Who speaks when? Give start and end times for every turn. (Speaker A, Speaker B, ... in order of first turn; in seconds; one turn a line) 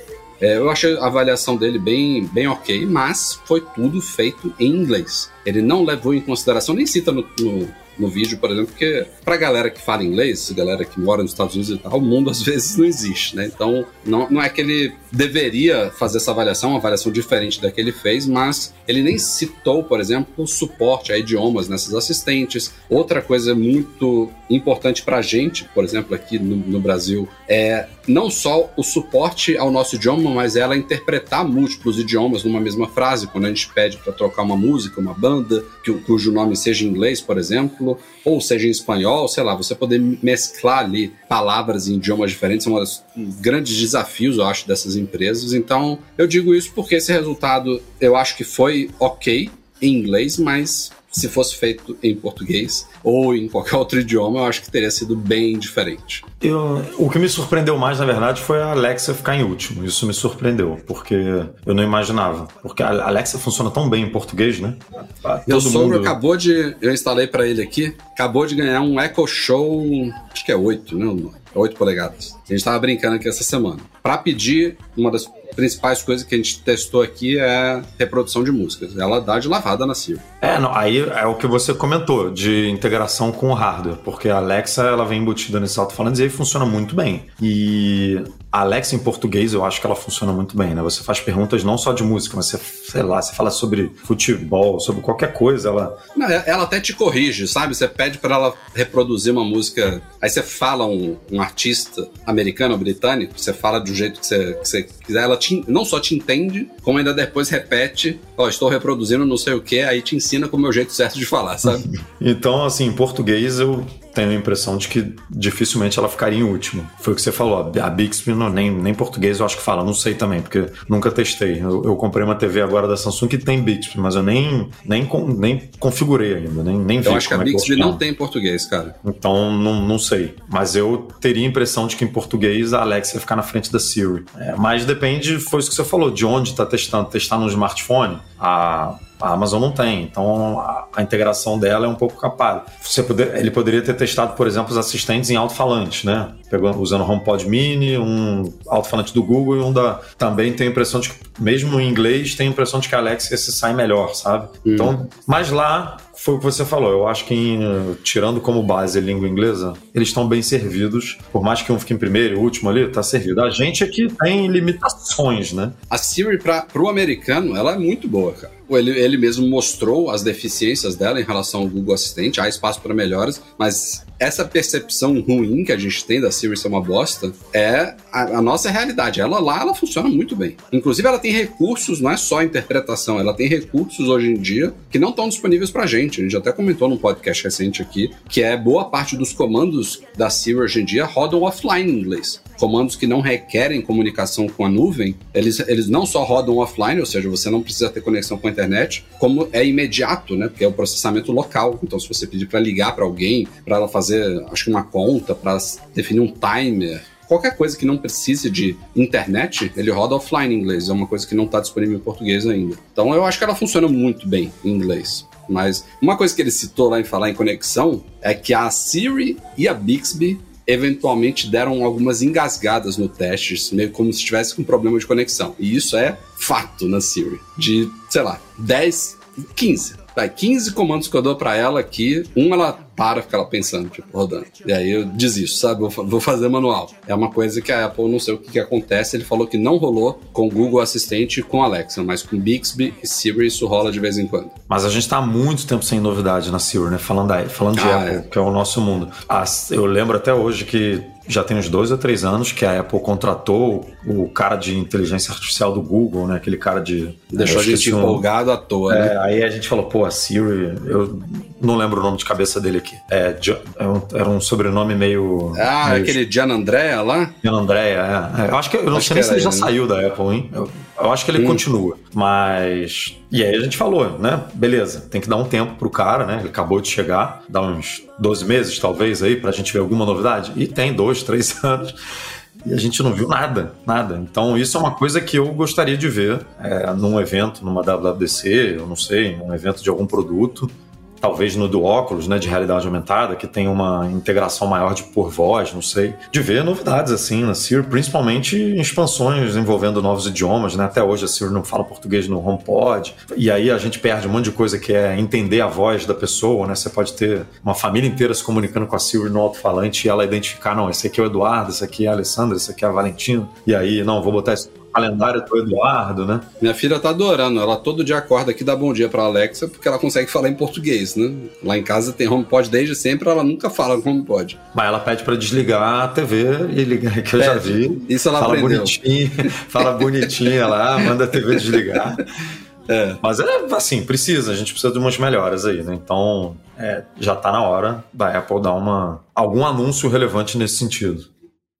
Speaker A: 0.4-56.2
Speaker B: 56.4-66.2
Speaker A: 65.5-80.2
Speaker B: 80.4-96.0
Speaker A: 96.2-111.9
Speaker B: 111.7-128.0
Speaker A: 127.0-128.9
Speaker B: 129.0-165.8
Speaker A: 154.6-154.9
Speaker A: 165.9-244.5
Speaker B: 244.7-258.2
Speaker A: 247.8-248.2
Speaker A: 257.3-259.1
Speaker B: 258.9-266.2
Speaker A: 265.6-267.3
Speaker B: 267.4-281.9
Speaker A: 268.9-269.7
Speaker A: 271.4-271.6
Speaker B: 282.6-316.5
Speaker A: 316.6-324.6
Speaker B: 324.7-332.2
Speaker A: 327.4-332.0
Speaker A: 332.9-333.2
Speaker B: 333.2-341.3